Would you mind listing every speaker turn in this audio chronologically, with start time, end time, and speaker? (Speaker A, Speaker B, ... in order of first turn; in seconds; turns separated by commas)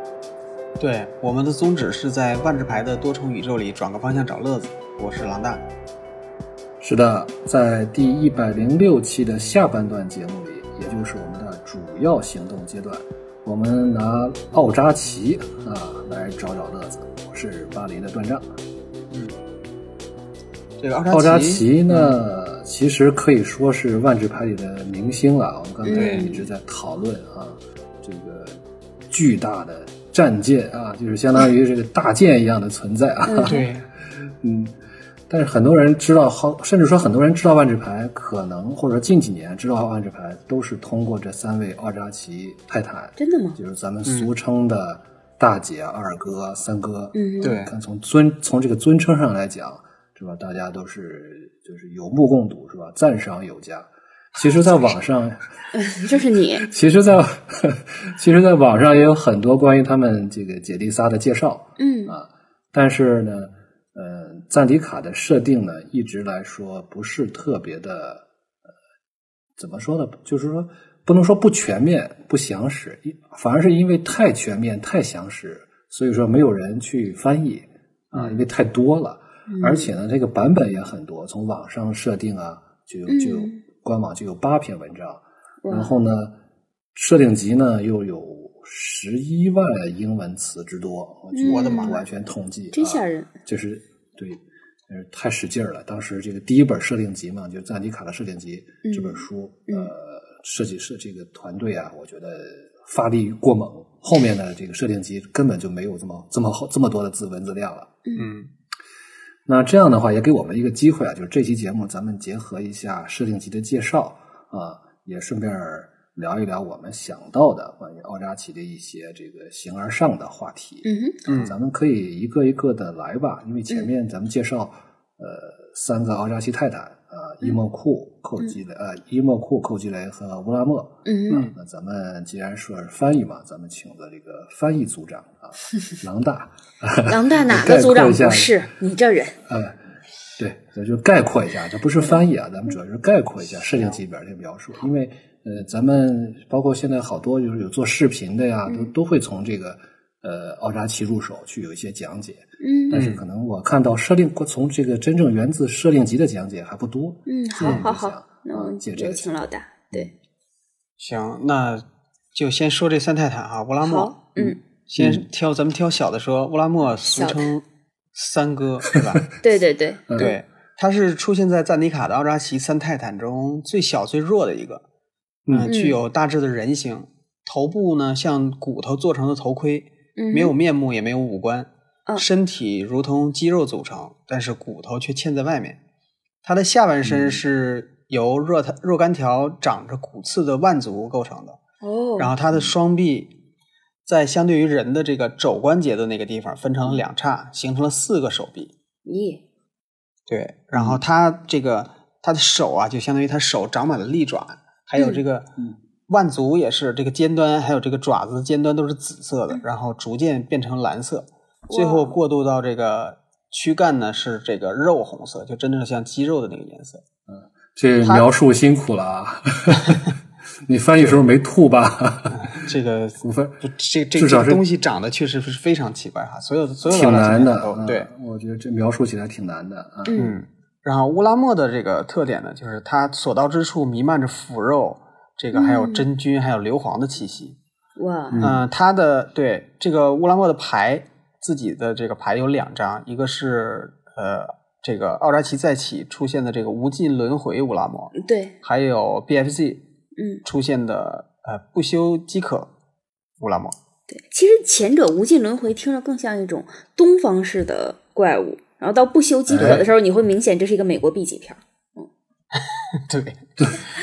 Speaker A: 0.8-5.6, Speaker B: 6.8-18.4, Speaker A: 19.1-19.3, Speaker A: 20.8-22.2, Speaker B: 21.1-33.6, Speaker C: 25.8-26.5, Speaker A: 25.9-26.3, Speaker C: 33.2-33.6, Speaker A: 33.5-33.9, Speaker B: 34.4-34.7, Speaker B: 35.3-55.5, Speaker C: 43.2-43.6, Speaker A: 44.0-44.3, Speaker C: 47.1-47.6, Speaker A: 47.4-47.7, Speaker C: 55.7-56.7, Speaker B: 56.6-68.3, Speaker C: 61.8-62.1, Speaker B: 69.6-86.3, Speaker A: 78.1-78.4, Speaker C: 79.5-79.9, Speaker C: 83.1-83.6, Speaker C: 85.6-86.0, Speaker B: 86.9-108.0, Speaker C: 91.3-92.0, Speaker A: 91.5-92.0, Speaker C: 92.7-93.3, Speaker C: 98.8-99.9, Speaker C: 108.0-108.3, Speaker A: 108.2-108.5, Speaker B: 109.5-138.5, Speaker C: 120.8-121.2, Speaker A: 121.3-121.5, Speaker C: 131.0-131.4, Speaker A: 131.3-131.6, Speaker C: 137.1-139.3, Speaker B: 139.5-139.8, Speaker B: 140.4-160.1, Speaker A: 143.5-144.0, Speaker C: 148.7-148.9, Speaker C: 152.6-153.0, Speaker A: 152.9-153.2, Speaker C: 157.2-160.1, Speaker A: 157.6-157.8, Speaker A: 161.0-161.8, Speaker A: 162.3-167.6, Speaker C: 163.8-164.2, Speaker B: 164.3-165.2, Speaker C: 166.9-167.5, Speaker A: 168.1-169.2, Speaker C: 169.4-170.3, Speaker A: 170.2-174.8, Speaker A: 175.5-185.8, Speaker C: 175.6-176.0, Speaker C: 180.2-180.5, Speaker A: 186.4-191.6, Speaker B: 187.0-187.4, Speaker C: 191.8-192.3, Speaker A: 192.2-193.3, Speaker A: 194.1-198.7, Speaker C: 199.1-199.4, Speaker A: 200.3-205.5, Speaker B: 200.7-201.0, Speaker C: 204.9-205.2, Speaker A: 206.1-217.0, Speaker C: 211.7-212.2, Speaker B: 217.3-220.0, Speaker A: 218.0-218.3, Speaker B: 220.7-222.7, Speaker A: 222.4-228.1, Speaker B: 223.2-223.6, Speaker B: 224.1-224.6, Speaker B: 226.8-230.2, Speaker C: 230.0-230.3, Speaker A: 230.2-237.6, Speaker C: 235.5-236.1, Speaker C: 238.0-238.5, Speaker B: 238.3-238.6, Speaker A: 238.4-249.8, Speaker C: 248.2-248.5, Speaker C: 250.2-250.4, Speaker A: 250.4-252.7, Speaker A: 253.4-253.7, Speaker C: 254.1-262.1, Speaker B: 259.5-259.9, Speaker A: 259.6-259.8, Speaker A: 262.5-263.4